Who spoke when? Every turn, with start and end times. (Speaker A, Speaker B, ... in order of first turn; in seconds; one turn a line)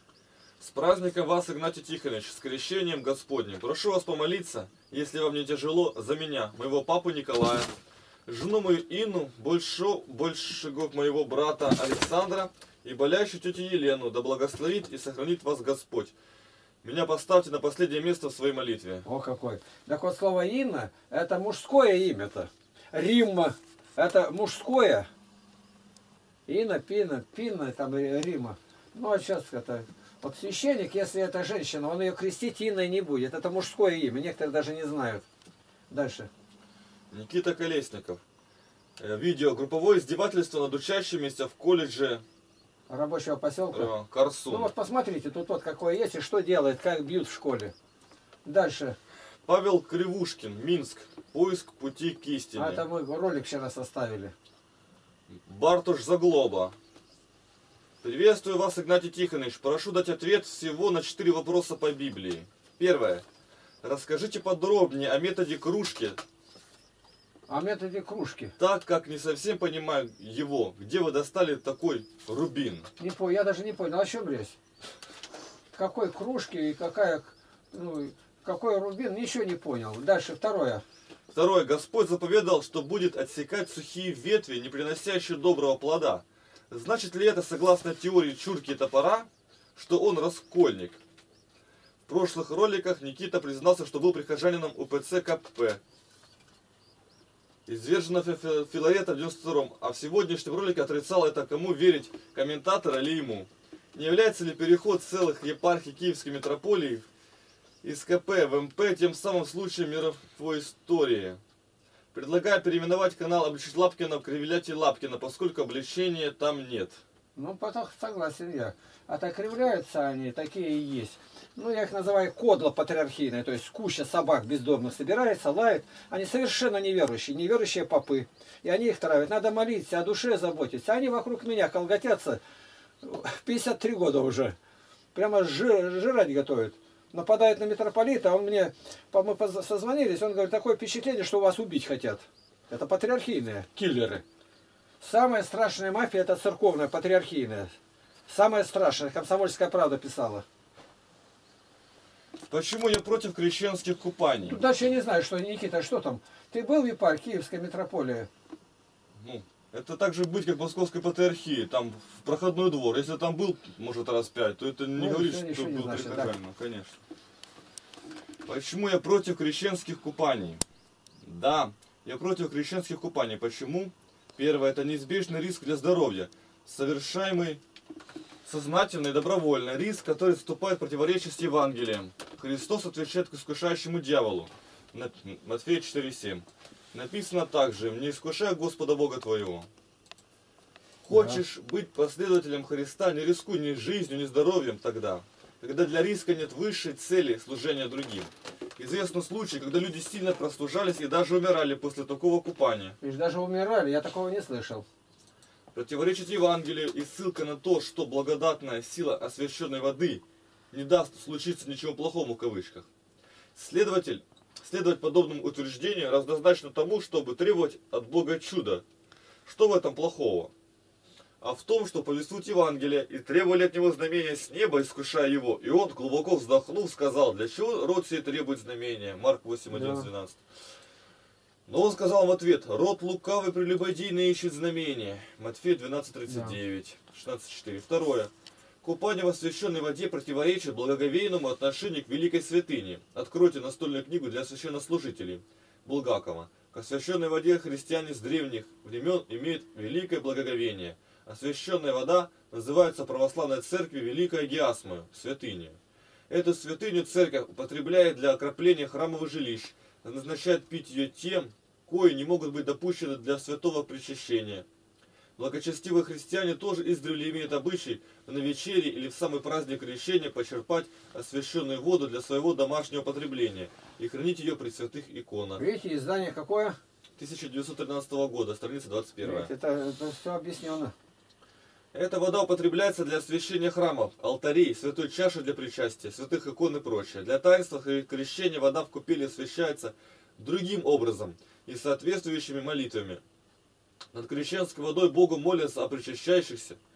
Speaker A: 0.6-7.7
Speaker A: 8.3-16.1
Speaker A: 16.8-19.1
Speaker B: 19.1-25.1
Speaker B: 26.5-35.2
Speaker B: 35.9-36.3
Speaker A: 37.1-38.2
Speaker A: 39.0-42.2
Speaker B: 42.9-43.9
Speaker A: 43.7-44.7
Speaker B: 44.5-47.7
Speaker B: 48.5-49.0
Speaker A: 49.5-52.9
Speaker B: 52.5-54.3
Speaker A: 55.3-56.8
Speaker A: 58.0-63.2
Speaker A: 63.8-66.2
Speaker B: 67.5-68.5
Speaker A: 68.6-72.9
Speaker B: 73.0-74.6
Speaker B: 75.7-80.8
Speaker A: 81.3-91.0
Speaker A: 92.1-95.8
Speaker A: 97.7-107.1
Speaker A: 107.8-111.4
Speaker A: 112.1-117.0
Speaker B: 117.4-132.4
Speaker B: 133.0-134.6
Speaker B: 135.1-144.2
Speaker B: 145.0-147.7
Speaker B: 148.3-150.4
Speaker A: 152.5-154.6
Speaker B: 154.4-158.3
Speaker A: 159.2-167.0
Speaker B: 165.0-166.3
Speaker A: 168.5-170.6
Speaker A: 171.2-177.6
Speaker A: 178.4-189.7
Speaker A: 191.0-203.0
Speaker B: 191.1-191.4
Speaker B: 203.0-204.9
Speaker A: 205.7-212.9
Speaker A: 213.6-218.8
Speaker A: 219.4-220.5
Speaker A: 221.4-230.4
Speaker B: 229.7-230.1
Speaker A: 231.7-238.3
Speaker B: 236.3-236.6
Speaker A: 238.8-255.8
Speaker A: 256.3-264.7
Speaker A: 265.4-275.6
Speaker B: 275.6-276.8
Speaker A: 277.2-279.5
Speaker B: 279.2-280.9
Speaker A: 281.9-293.2
Speaker A: 294.1-296.8